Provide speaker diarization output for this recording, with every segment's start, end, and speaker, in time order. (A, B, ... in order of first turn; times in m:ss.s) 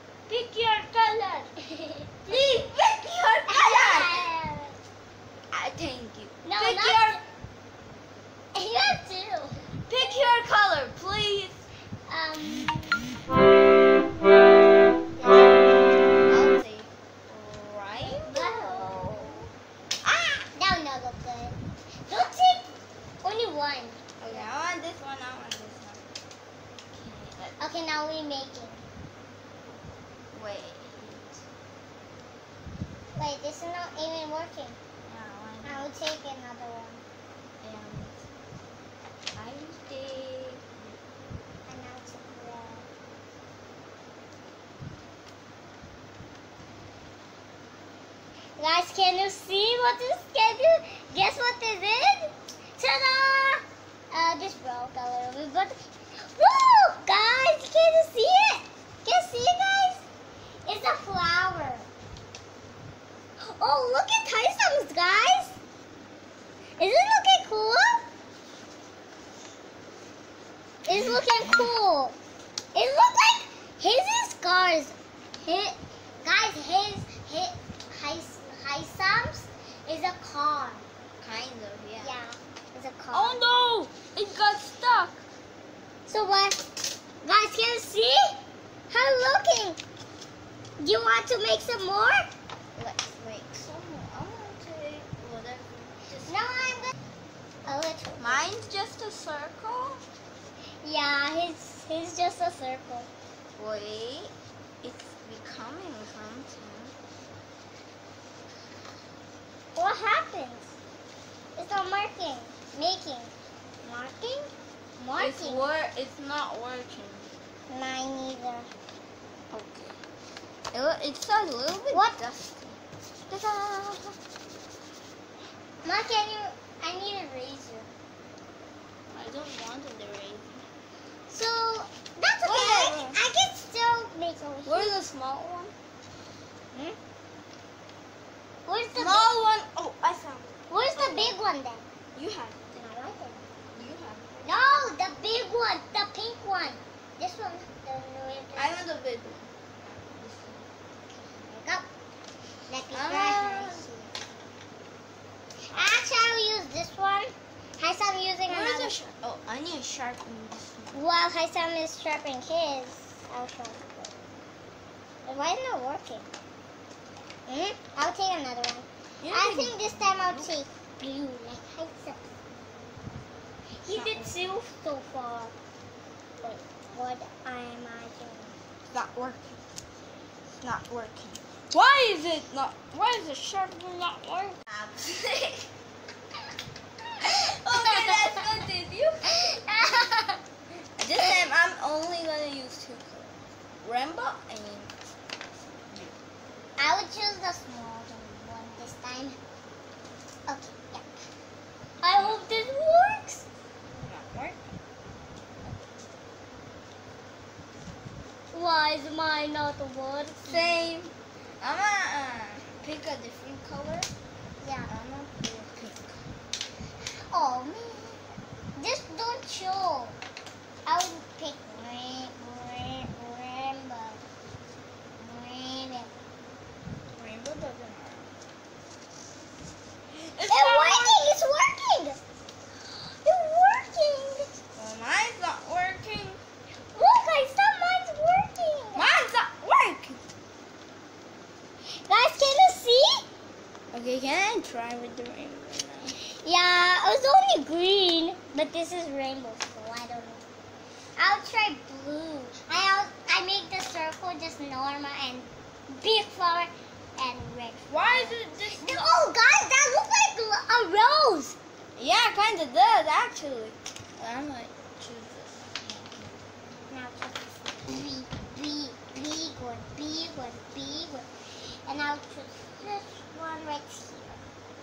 0:00.3-0:01.5 A
0:01.6-0:02.6 B
0:02.3-0:04.2 A
0:03.5-0:04.8 B
0:05.5-0:07.2 A
0:06.4-0:07.2 B
0:08.5-0:10.2 B
0:09.9-0:11.6 A
0:12.1-0:13.1 B
0:15.2-0:15.6 B
0:16.2-0:19.5 A
0:18.0-0:19.4 B
0:20.0-0:22.7 B
0:23.2-0:24.5 B
0:24.2-0:26.1 A
0:26.9-0:27.6 A
0:27.6-0:28.9 B
0:30.3-0:31.4 A
0:33.2-0:34.8 B
0:35.0-0:35.9 A
0:35.6-0:37.0 B
0:37.6-0:38.2 A
0:39.3-0:41.0 A
0:41.7-0:42.9 B
0:48.6-1:00.1 B
1:00.6-1:01.9 B
1:03.4-1:05.6 B
1:06.8-1:08.0 B
1:10.8-1:12.2 B
1:12.7-1:20.9 B
1:21.2-1:22.1 A
1:22.0-1:23.4 B
1:23.1-1:25.2 A
1:26.1-1:26.7 B
1:27.2-1:28.4 B
1:28.9-1:29.8 B
1:30.8-1:32.3 B
1:32.8-1:36.8 A
1:36.3-1:36.9 B
1:37.6-1:38.5 B
1:38.2-1:40.0 A
1:40.8-1:43.1 B
1:43.6-1:47.0 A
1:49.8-1:50.8 B
1:51.6-1:55.7 B
1:55.2-1:57.3 A
1:57.7-1:58.7 B
1:59.5-2:00.0 A
2:00.7-2:02.8 A
2:03.3-2:04.2 A
2:05.8-2:07.9 B
2:09.1-2:10.6 A
2:11.3-2:14.9 B
2:12.4-2:13.2 A
2:14.6-2:15.7 A
2:16.7-2:17.0 A
2:18.7-2:19.4 B
2:18.9-2:21.4 A
2:20.7-2:21.8 B
2:22.2-2:22.7 A
2:22.7-2:23.4 B
2:23.7-2:24.7 A
2:24.4-2:28.8 B
2:28.6-2:30.7 A
2:31.3-2:31.9 B
2:32.7-2:34.1 B
2:32.9-2:33.9 A
2:35.7-2:39.0 B
2:38.5-2:41.0 A
2:40.9-2:44.2 B
2:45.2-2:46.3 B
2:47.5-2:52.3 B
2:49.2-2:50.5 A
2:53.8-2:55.5 B
2:53.9-2:54.6 A
2:56.4-2:58.6 B
2:58.9-2:59.6 A
3:00.6-3:05.7 A
3:07.2-3:10.2 A
3:07.7-3:08.6 B
3:09.3-3:10.4 B
3:11.0-3:14.9 A
3:15.5-3:16.2 A
3:16.8-3:19.4 B
3:20.5-3:21.1 B
3:22.0-3:23.5 B
3:22.1-3:22.7 A
3:23.9-3:24.8 A
3:28.5-3:30.8 B
3:30.4-3:34.1 A
3:34.6-3:34.9 B
3:34.9-3:36.2 A
3:37.3-3:40.2 B
3:40.9-3:44.2 B
3:45.2-3:46.1 B
3:47.1-3:48.3 A
3:50.2-3:51.2 A
3:50.4-3:52.2 B
3:52.8-3:54.5 B
3:54.8-3:56.4 A
3:56.9-3:59.1 B
3:58.9-4:00.2 A
4:01.9-4:03.3 B
4:03.9-4:06.2 A
4:06.2-4:10.4 B
4:11.2-4:21.6 B
4:17.9-4:19.2 A
4:22.0-4:26.4 A
4:26.9-4:34.4 B